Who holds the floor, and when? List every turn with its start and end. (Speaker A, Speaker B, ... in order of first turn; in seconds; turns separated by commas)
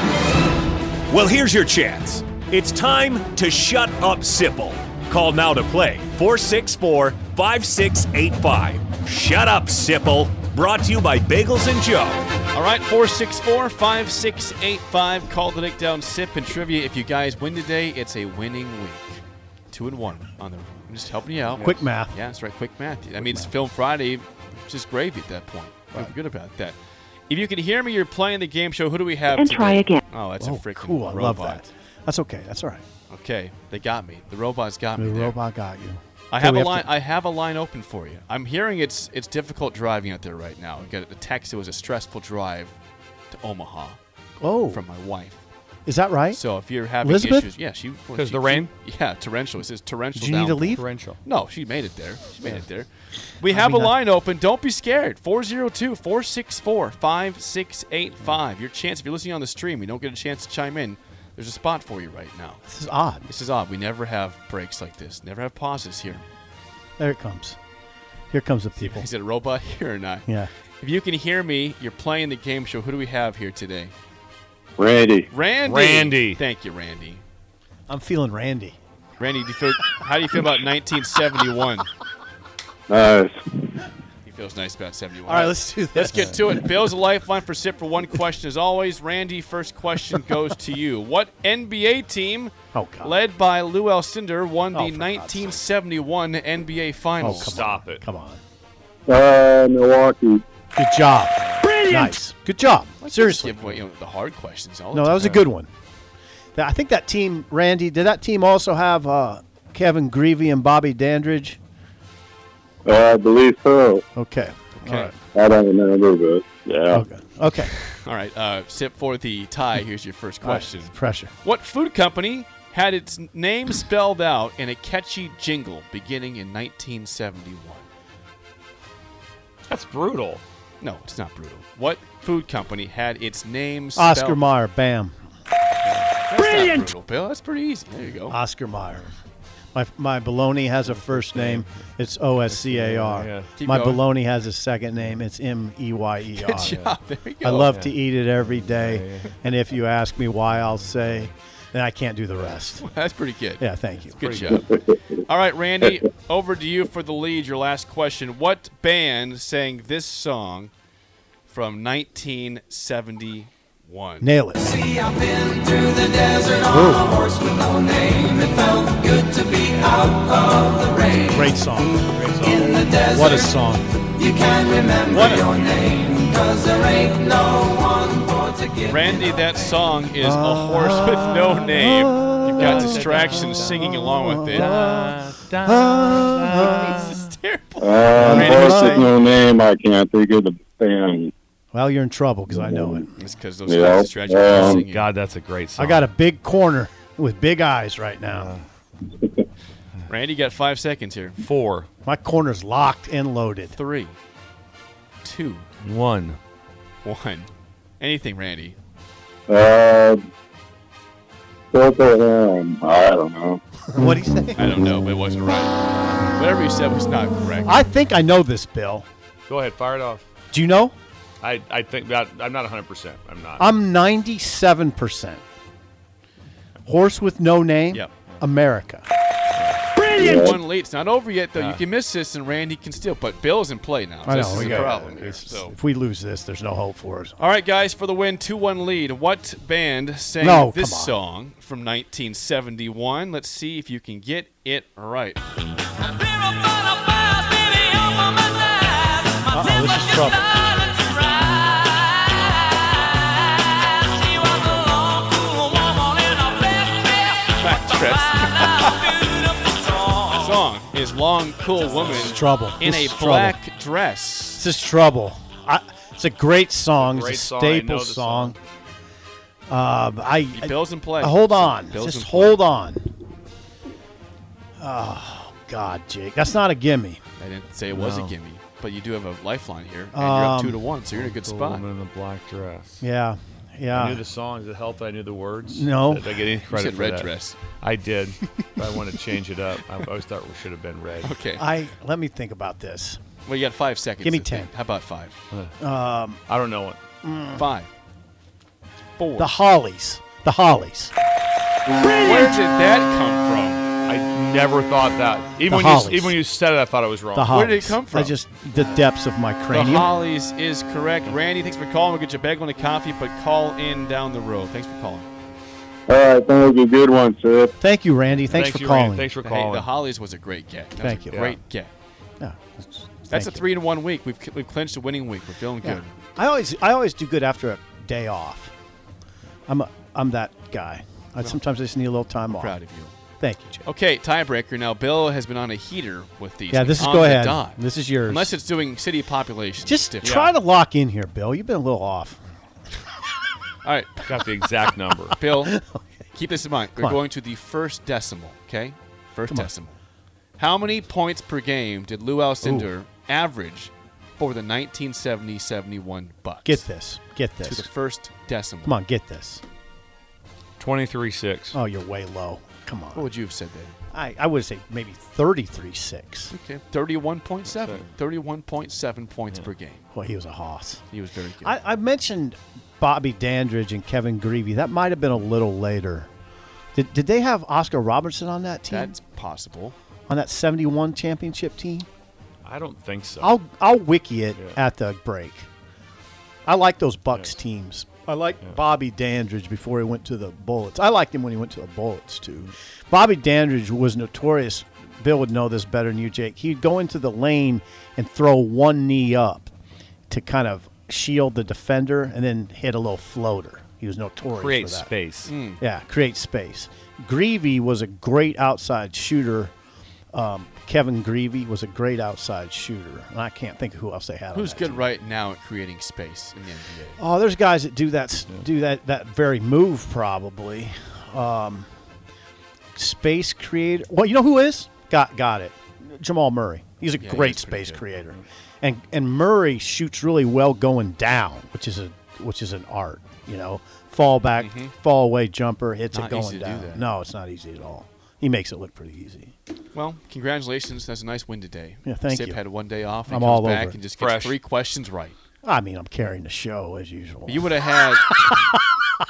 Speaker A: 1.1-12.2, Speaker B: 12.5-26.8, Speaker C: 21.6-22.1, Speaker C: 23.2-23.5, Speaker B: 27.3-31.7, Speaker C: 30.4-32.8, Speaker B: 33.1-35.4, Speaker C: 35.0-36.9, Speaker B: 36.3-42.8, Speaker B: 43.3-44.0, Speaker C: 44.4-44.8, Speaker B: 44.7-45.4, Speaker C: 45.9-46.4, Speaker B: 46.3-62.6, Speaker C: 47.0-47.5, Speaker D: 48.1-48.7, Speaker C: 50.1-50.8, Speaker D: 50.7-51.2, Speaker C: 53.5-53.9, Speaker C: 62.7-63.3, Speaker B: 63.3-66.2, Speaker C: 67.0-67.6, Speaker C: 68.3-69.0, Speaker B: 68.8-70.2, Speaker B: 70.8-73.9, Speaker E: 74.8-75.3, Speaker B: 75.3-77.2, Speaker D: 75.6-76.4, Speaker C: 77.9-78.8, Speaker B: 79.2-81.9, Speaker E: 82.9-83.8, Speaker B: 84.2-97.6, Speaker C: 85.2-86.8, Speaker C: 92.7-93.2, Speaker C: 94.7-95.6, Speaker C: 97.2-98.4, Speaker D: 97.2-98.0, Speaker E: 99.1-100.4, Speaker C: 100.8-103.6, Speaker D: 101.5-101.8, Speaker B: 103.0-105.3, Speaker C: 104.9-105.7, Speaker C: 106.5-111.6, Speaker E: 112.8-114.0, Speaker C: 114.1-115.1, Speaker B: 114.8-115.1, Speaker E: 115.3-117.0, Speaker C: 116.9-117.7, Speaker B: 117.9-127.8, Speaker C: 120.4-121.3, Speaker D: 129.7-130.4, Speaker B: 130.8-134.4, Speaker C: 133.9-135.2, Speaker B: 136.3-138.4, Speaker C: 138.3-139.1, Speaker C: 139.7-146.8, Speaker D: 141.0-141.7, Speaker D: 142.5-143.5, Speaker B: 143.6-144.0, Speaker B: 146.3-147.7, Speaker D: 146.7-146.9, Speaker C: 147.4-152.9, Speaker D: 147.7-149.4, Speaker D: 150.7-151.3, Speaker B: 152.8-160.7, Speaker C: 153.6-154.2, Speaker D: 154.2-154.6, Speaker B: 161.5-164.3, Speaker C: 164.2-165.0, Speaker C: 166.4-167.6, Speaker C: 171.1-172.1, Speaker D: 172.2-172.8, Speaker C: 173.0-174.3, Speaker C: 175.0-175.6, Speaker B: 178.8-184.7, Speaker C: 180.2-187.0, Speaker D: 182.6-187.3, Speaker B: 186.6-189.1, Speaker E: 187.8-191.3, Speaker C: 188.1-189.1, Speaker C: 191.7-193.1, Speaker E: 192.5-193.1, Speaker B: 193.2-195.1, Speaker E: 193.7-194.8, Speaker D: 194.5-196.1, Speaker C: 195.8-198.5, Speaker D: 198.3-198.6, Speaker E: 199.2-199.4, Speaker B: 200.1-201.4, Speaker D: 201.4-201.9, Speaker C: 202.0-203.8, Speaker B: 203.7-204.2, Speaker B: 205.2-205.7, Speaker D: 205.8-206.4, Speaker B: 207.0-208.8, Speaker E: 209.5-210.2, Speaker E: 211.7-213.6, Speaker C: 213.9-214.8, Speaker B: 214.6-217.7, Speaker C: 217.7-219.1, Speaker D: 219.5-220.2, Speaker C: 220.5-220.9, Speaker D: 221.4-223.7, Speaker C: 223.6-225.4, Speaker C: 226.8-229.1, Speaker C: 230.1-230.6, Speaker E: 230.1-230.6, Speaker B: 230.1-235.7, Speaker D: 231.6-231.8, Speaker C: 234.2-237.3, Speaker D: 234.3-235.0, Speaker B: 237.4-245.4, Speaker C: 240.4-241.2, Speaker C: 249.5-250.9, Speaker B: 257.4-259.3, Speaker B: 260.2-264.6, Speaker C: 262.1-263.6, Speaker C: 264.6-268.6, Speaker D: 267.0-268.6, Speaker C: 269.7-273.1, Speaker B: 270.5-272.6, Speaker C: 274.8-277.2, Speaker B: 277.4-281.8, Speaker D: 277.9-278.3, Speaker C: 280.1-280.8, Speaker D: 281.1-283.0, Speaker C: 283.0-284.2, Speaker D: 283.9-291.3, Speaker C: 285.7-286.4, Speaker B: 286.7-287.6, Speaker B: 291.2-291.7, Speaker C: 291.6-293.2, Speaker B: 293.4-295.4, Speaker C: 294.2-294.7, Speaker C: 295.8-296.4, Speaker D: 296.5-297.0, Speaker C: 297.2-297.6, Speaker B: 297.6-297.9, Speaker B: 299.2-299.5, Speaker C: 299.4-301.1, Speaker B: 302.1-303.8, Speaker C: 302.2-302.5, Speaker D: 304.1-307.5, Speaker C: 305.7-306.4, Speaker C: 307.3-310.1, Speaker B: 307.5-308.3, Speaker B: 309.7-315.2, Speaker E: 316.1-317.7, Speaker C: 317.8-319.3, Speaker D: 318.5-319.9, Speaker B: 319.4-321.9, Speaker C: 321.0-321.5, Speaker C: 322.4-323.7, Speaker B: 323.3-326.1, Speaker C: 325.8-328.7, Speaker C: 329.7-332.7, Speaker B: 332.5-333.1, Speaker C: 333.4-333.8, Speaker B: 333.8-340.5, Speaker C: 336.7-338.5, Speaker C: 339.8-342.4, Speaker B: 343.8-344.3, Speaker D: 344.2-345.4, Speaker B: 345.4-345.8, Speaker C: 345.5-346.3, Speaker B: 346.3-350.0, Speaker B: 350.6-356.8, Speaker C: 352.6-352.9, Speaker C: 356.6-357.9, Speaker B: 357.6-358.9, Speaker C: 358.8-359.6, Speaker D: 360.8-361.8, Speaker C: 361.7-363.3, Speaker B: 363.1-363.9, Speaker C: 364.1-366.5, Speaker B: 366.5-370.0, Speaker C: 370.1-371.0, Speaker B: 371.1-371.7, Speaker C: 371.6-376.3, Speaker C: 376.9-379.2, Speaker B: 378.9-379.9, Speaker C: 380.3-382.1, Speaker D: 382.6-383.5, Speaker C: 383.4-385.7, Speaker C: 386.6-399.7, Speaker C: 400.3-405.1, Speaker D: 404.6-405.5, Speaker B: 405.5-405.8, Speaker C: 405.8-409.7, Speaker C: 410.3-415.0, Speaker B: 414.5-417.2, Speaker C: 417.2-421.9, Speaker C: 422.9-439.5, Speaker B: 427.2-428.0, Speaker B: 434.6-434.9, Speaker B: 436.1-437.0, Speaker B: 439.9-445.4, Speaker C: 442.0-442.6, Speaker C: 443.3-444.0, Speaker D: 444.2-444.6, Speaker C: 445.6-448.8, Speaker B: 447.5-448.7